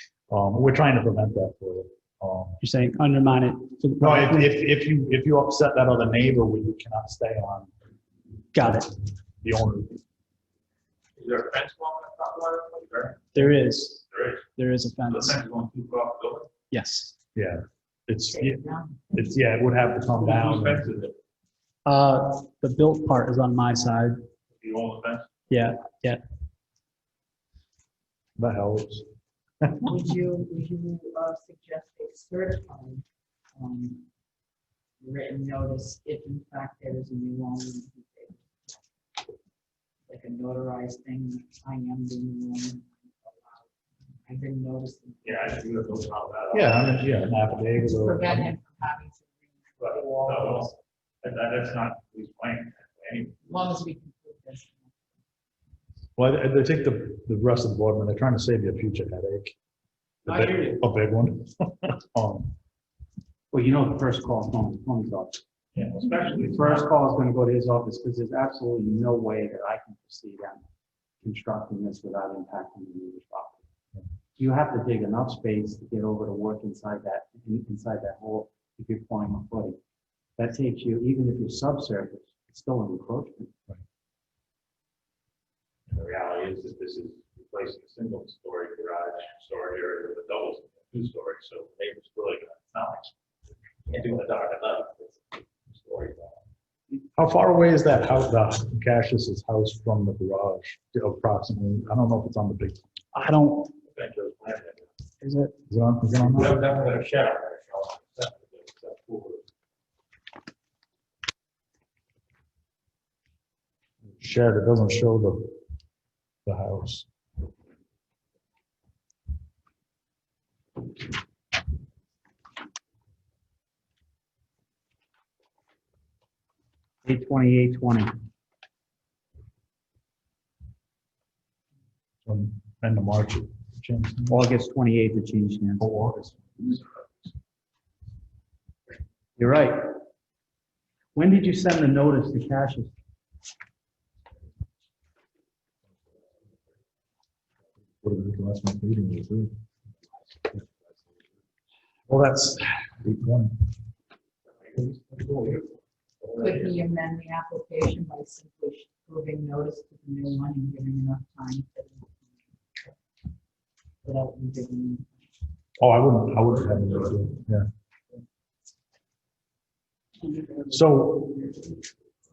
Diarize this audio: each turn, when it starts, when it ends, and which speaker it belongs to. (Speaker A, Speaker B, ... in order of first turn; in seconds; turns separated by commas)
Speaker A: 0.3-2.6, Speaker B: 2.6-4.5, Speaker A: 4.0-7.7, Speaker B: 8.5-8.9, Speaker A: 9.4-10.0, Speaker C: 11.2-13.4, Speaker B: 13.3-14.0, Speaker C: 14.1-14.5, Speaker B: 14.6-15.4, Speaker C: 15.1-16.5, Speaker B: 16.7-17.1, Speaker A: 17.4-20.9, Speaker D: 18.3-19.1, Speaker C: 20.2-21.2, Speaker B: 21.9-24.2, Speaker C: 24.6-25.3, Speaker B: 25.5-26.2, Speaker A: 28.4-29.1, Speaker A: 29.6-29.9, Speaker D: 29.8-33.0, Speaker D: 33.6-34.0, Speaker D: 35.0-38.5, Speaker D: 40.1-43.5, Speaker D: 44.3-45.6, Speaker C: 45.2-47.3, Speaker A: 46.5-48.5, Speaker D: 47.8-50.7, Speaker C: 49.8-53.4, Speaker D: 53.5-54.9, Speaker A: 56.2-59.5, Speaker A: 60.2-62.5, Speaker E: 63.5-65.4, Speaker C: 65.8-66.9, Speaker E: 66.3-70.6, Speaker E: 71.2-73.6, Speaker E: 74.4-79.8, Speaker E: 80.4-83.5, Speaker C: 85.9-93.1, Speaker C: 93.9-96.4, Speaker A: 97.2-102.8, Speaker B: 103.2-103.7, Speaker C: 103.8-104.9, Speaker B: 105.2-105.5, Speaker A: 105.7-106.6, Speaker C: 106.1-109.4, Speaker A: 114.2-115.6, Speaker A: 116.5-117.1, Speaker E: 127.0-128.2, Speaker A: 132.3-134.4, Speaker E: 134.3-135.9, Speaker A: 135.8-136.8, Speaker E: 139.4-140.0, Speaker E: 141.2-142.9, Speaker A: 148.0-149.5, Speaker A: 152.1-153.6, Speaker C: 154.8-155.7, Speaker C: 156.2-156.6, Speaker D: 156.4-162.2, Speaker D: 164.0-165.1, Speaker A: 165.8-167.7, Speaker B: 170.3-170.6, Speaker A: 170.7-171.8